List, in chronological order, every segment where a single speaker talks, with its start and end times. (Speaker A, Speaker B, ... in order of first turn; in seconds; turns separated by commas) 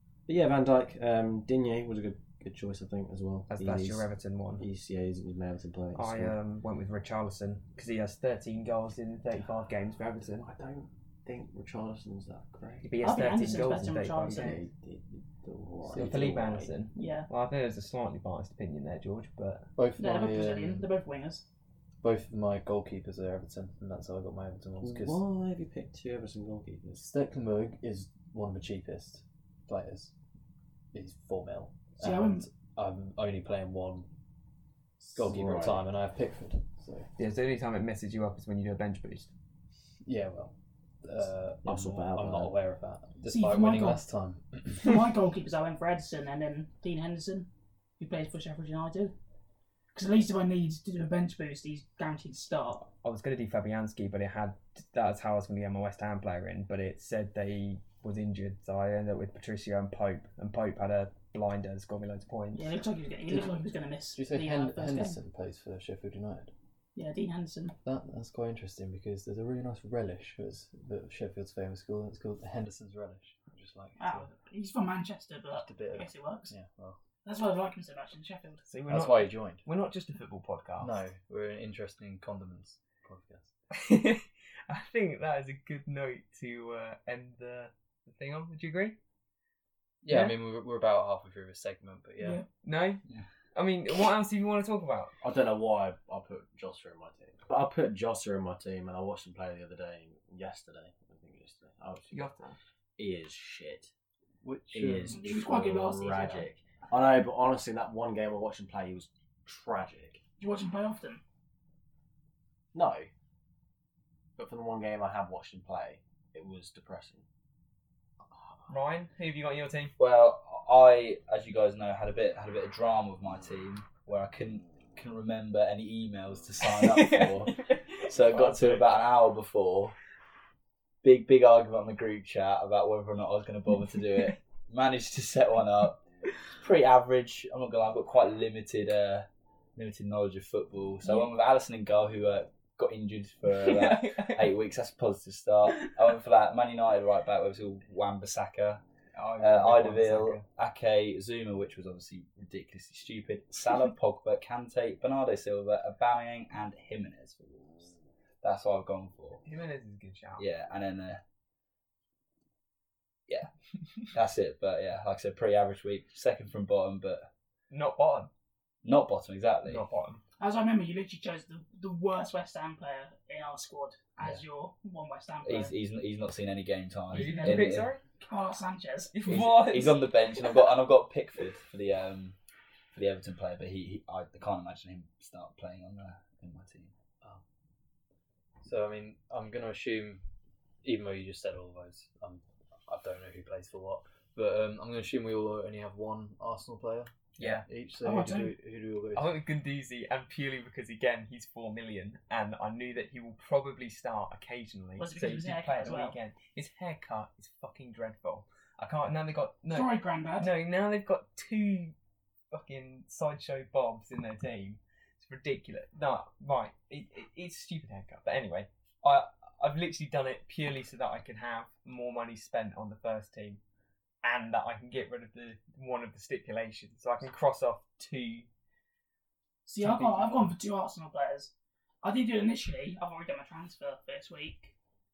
Speaker A: 0.3-4.1, Speaker B: 3.5-4.6, Speaker A: 4.6-6.4, Speaker B: 6.0-10.5, Speaker A: 10.4-12.9, Speaker B: 12.8-14.6, Speaker C: 13.0-14.6, Speaker A: 14.0-16.7, Speaker D: 15.8-16.5, Speaker B: 15.9-19.6, Speaker C: 16.9-17.3, Speaker D: 19.8-20.8, Speaker C: 20.0-21.4, Speaker D: 22.0-25.2, Speaker A: 24.8-27.1, Speaker D: 26.9-30.1, Speaker D: 30.9-34.1, Speaker C: 32.0-32.5, Speaker D: 35.0-37.1, Speaker A: 35.1-35.9, Speaker B: 37.2-39.3, Speaker D: 40.0-45.0, Speaker A: 41.6-42.5, Speaker C: 43.3-44.0, Speaker C: 44.8-49.1, Speaker C: 49.9-52.9, Speaker B: 52.9-62.7, Speaker C: 62.5-65.2, Speaker D: 64.1-66.5, Speaker C: 67.0-67.8, Speaker D: 67.8-74.3, Speaker C: 74.0-76.5, Speaker D: 75.5-77.0, Speaker C: 77.2-78.7, Speaker B: 78.7-81.1, Speaker D: 78.9-79.6, Speaker D: 80.8-83.5, Speaker B: 83.7-89.0, Speaker D: 90.0-92.4, Speaker B: 90.1-90.4, Speaker C: 92.2-92.5, Speaker B: 92.6-93.0, Speaker B: 93.5-95.1, Speaker A: 95.2-102.3, Speaker B: 102.1-102.6, Speaker A: 103.0-103.9, Speaker D: 104.4-105.2, Speaker A: 104.7-110.2, Speaker C: 105.1-106.5, Speaker C: 110.4-111.2, Speaker A: 112.7-113.1, Speaker A: 114.4-117.2, Speaker B: 118.7-119.9, Speaker E: 120.0-129.9, Speaker B: 126.7-128.8, Speaker E: 131.0-148.8, Speaker B: 143.5-144.5, Speaker B: 149.1-150.4, Speaker E: 149.4-159.4, Speaker B: 159.4-160.4, Speaker E: 160.4-161.2, Speaker E: 164.1-167.3, Speaker B: 167.7-168.3, Speaker E: 168.8-169.8, Speaker B: 169.6-170.2, Speaker C: 170.4-175.7, Speaker E: 175.4-177.9, Speaker B: 177.1-178.0, Speaker C: 177.1-179.2, Speaker B: 179.1-180.4, Speaker E: 179.3-182.4, Speaker E: 182.9-186.9, Speaker D: 188.6-190.2, Speaker D: 190.8-199.4, Speaker B: 197.4-197.6, Speaker C: 198.0-198.5, Speaker B: 199.1-211.9, Speaker C: 205.0-206.2, Speaker C: 209.7-210.5, Speaker B: 212.5-223.6, Speaker B: 224.2-228.5, Speaker C: 229.7-234.7, Speaker B: 229.8-230.5